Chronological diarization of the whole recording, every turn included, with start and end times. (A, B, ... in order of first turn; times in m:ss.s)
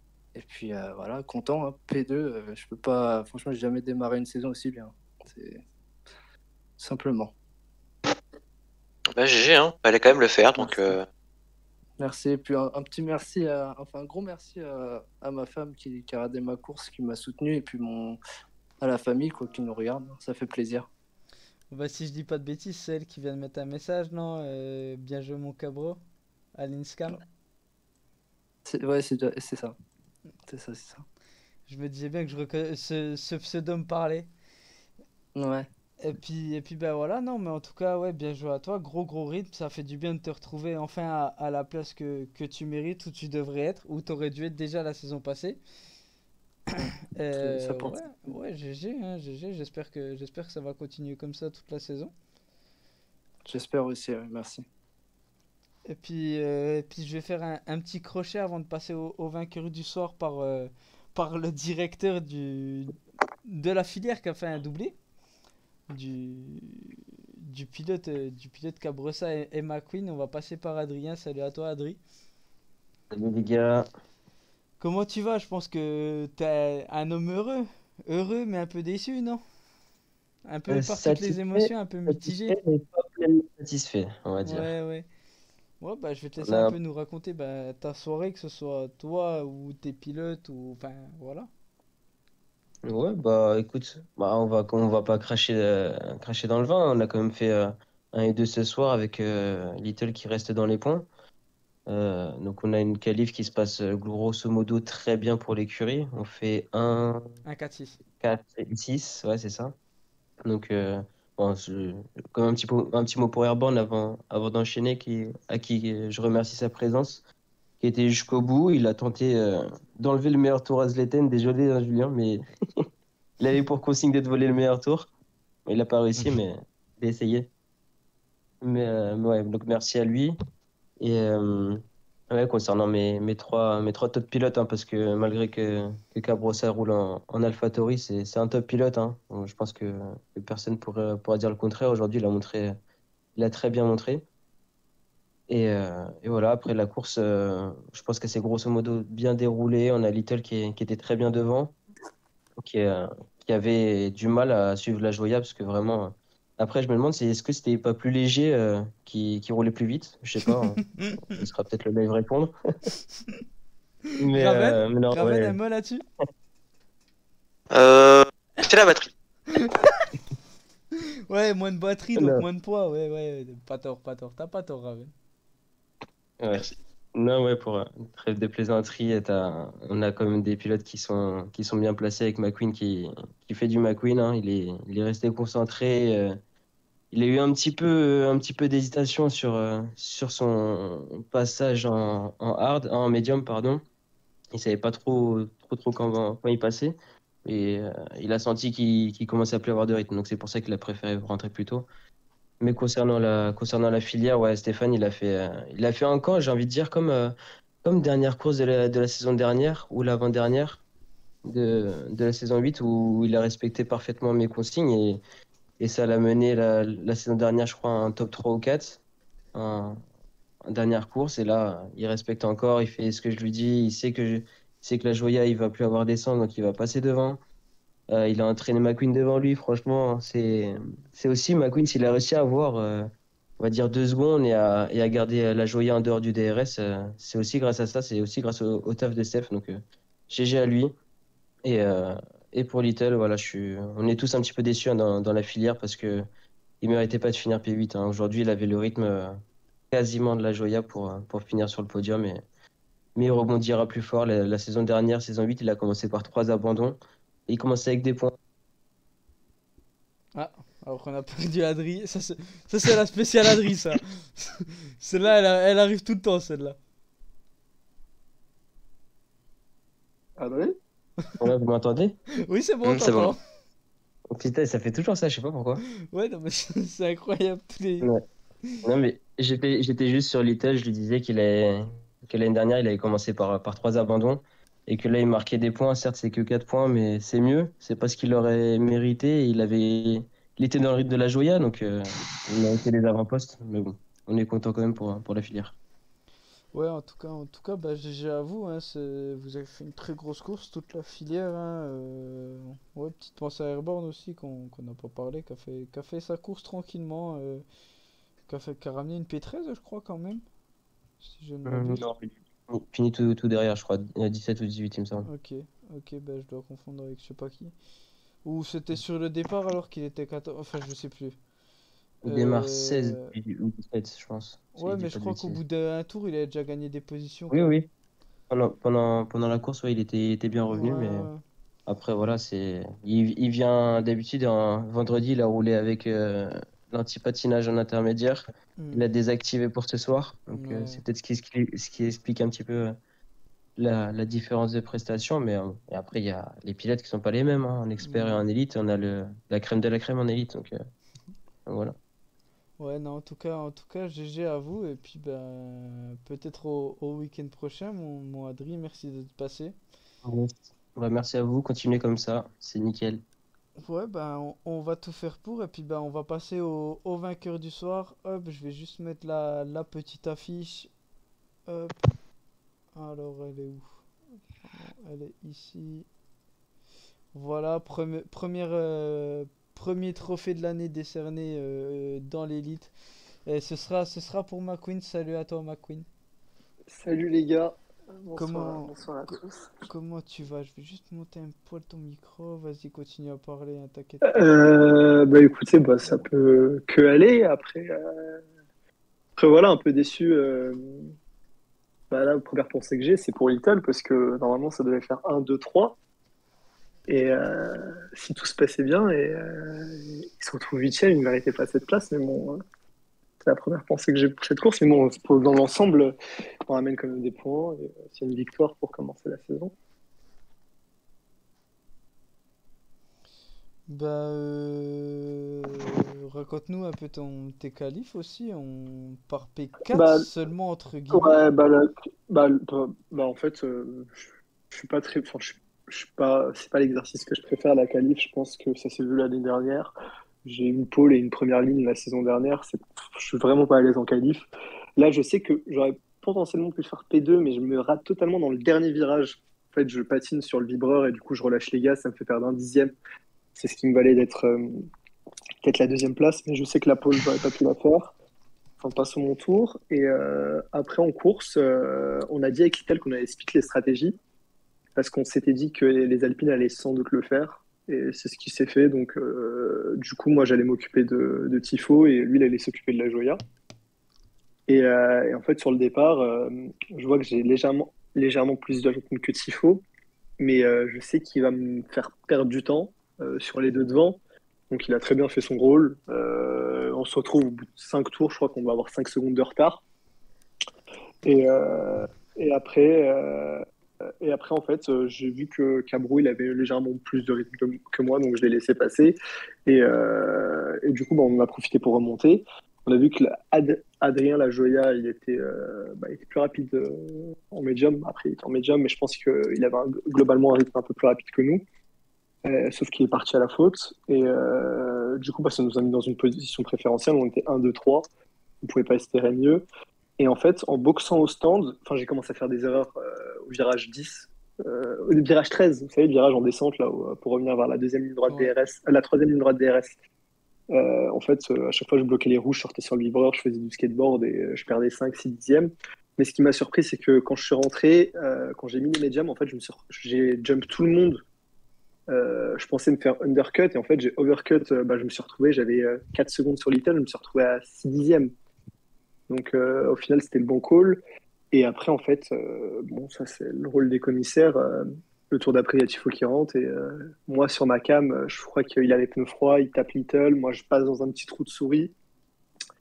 0:00.3-0:05.6 A
0:06.8-0:07.3 A
0:09.2-0:11.0 B
0:10.6-0:11.0 A
0:12.0-0:18.2 A
0:18.8-0:20.9 A
0:21.7-0:26.0 C
0:26.6-0:27.2 C
0:28.7-0:29.8 A
0:30.5-0:31.0 A
0:31.7-0:34.3 C
0:35.4-0:35.7 A
0:36.0-0:45.6 C
0:47.2-0:52.1 C
0:47.4-0:48.0 A
0:53.5-0:54.7 A
0:55.9-1:03.0 C
1:03.5-1:05.0 C
1:05.9-1:12.0 C
1:13.1-1:13.9 D
1:14.8-1:19.4 C
1:20.5-1:22.6 C
1:20.7-1:24.7 D
1:24.4-1:25.1 C
1:25.8-1:31.5 C
1:26.4-1:26.8 D
1:32.8-1:41.1 D
1:41.9-1:47.4 D
1:47.4-1:48.0 C
1:48.2-1:49.8 D
1:50.5-1:57.2 D
1:57.8-2:02.8 D
2:03.4-2:05.1 D
2:05.7-2:07.5 D
2:08.6-2:10.4 D
2:11.0-2:22.8 D
2:23.4-2:24.2 D
2:25.5-2:31.7 D
2:32.6-2:40.8 D
2:41.3-2:42.5 D
2:44.2-2:45.6 D
2:44.3-2:46.0 C
2:47.7-2:49.1 B
2:49.5-2:50.1 C
2:51.3-2:55.1 C
2:52.2-2:52.4 D
2:56.4-3:06.4 D
3:07.1-3:13.8 D
3:14.5-3:21.9 D
3:22.6-3:30.8 D
3:31.4-3:35.2 D
3:35.8-3:39.0 D
3:39.5-3:40.0 D
3:40.7-3:47.4 D
3:48.1-4:01.0 D
4:01.6-4:06.3 D
4:06.8-4:09.4 D
4:09.9-4:12.4 D
4:13.2-4:18.4 D
4:20.4-4:26.8 C
4:30.4-4:30.7 E
4:31.4-4:32.2 D
4:32.5-4:33.4 C
4:32.9-4:33.3 D
4:34.3-4:35.8 D
4:36.1-4:38.1 C
4:38.8-4:55.7 D
4:56.7-5:07.6 C
5:08.5-5:10.4 C
5:11.2-5:12.0 C
5:11.7-5:15.3 D
5:15.3-5:17.7 C
5:18.4-5:21.4 C
5:22.2-5:25.6 D
5:22.3-5:23.4 C
5:24.8-5:27.7 C
5:27.5-5:27.9 D
5:28.5-5:31.3 D
5:30.7-5:31.4 C
5:31.9-5:43.0 D
5:38.8-5:39.1 C
5:40.5-5:41.0 C
5:43.8-5:50.8 D
5:48.0-5:48.4 C
5:51.7-5:52.0 D
5:52.8-5:59.8 C
6:00.2-6:03.2 D
6:03.8-6:10.9 C
6:11.7-6:12.1 C
6:13.0-6:13.9 C
6:14.7-6:16.1 C
6:17.3-6:22.9 C
6:23.5-6:26.1 C
6:26.9-6:29.8 E
6:28.4-6:29.3 C
6:29.9-6:34.4 C
6:34.3-6:38.4 E
6:39.4-6:41.1 E
6:42.1-6:46.0 E
6:47.1-6:52.6 E
6:53.4-6:56.2 E
6:56.7-6:59.7 E
7:03.9-7:11.4 C
7:09.9-7:10.3 E
7:11.1-7:14.2 E
7:14.7-7:19.9 E
7:20.4-7:24.5 E
7:25.0-7:32.9 E
7:33.6-7:34.9 E
7:35.6-7:38.1 E
7:38.8-7:44.2 E
7:45.0-7:53.4 E
7:54.7-7:59.8 E
8:00.4-8:09.8 E
8:11.2-8:13.6 E
8:14.2-8:31.6 E
8:32.4-8:38.1 E
8:38.6-8:39.6 E
8:40.2-8:50.0 E
8:48.3-8:48.5 C
8:50.7-9:01.2 E
9:02.1-9:08.3 E
9:09.3-9:11.0 E
9:11.5-9:21.9 E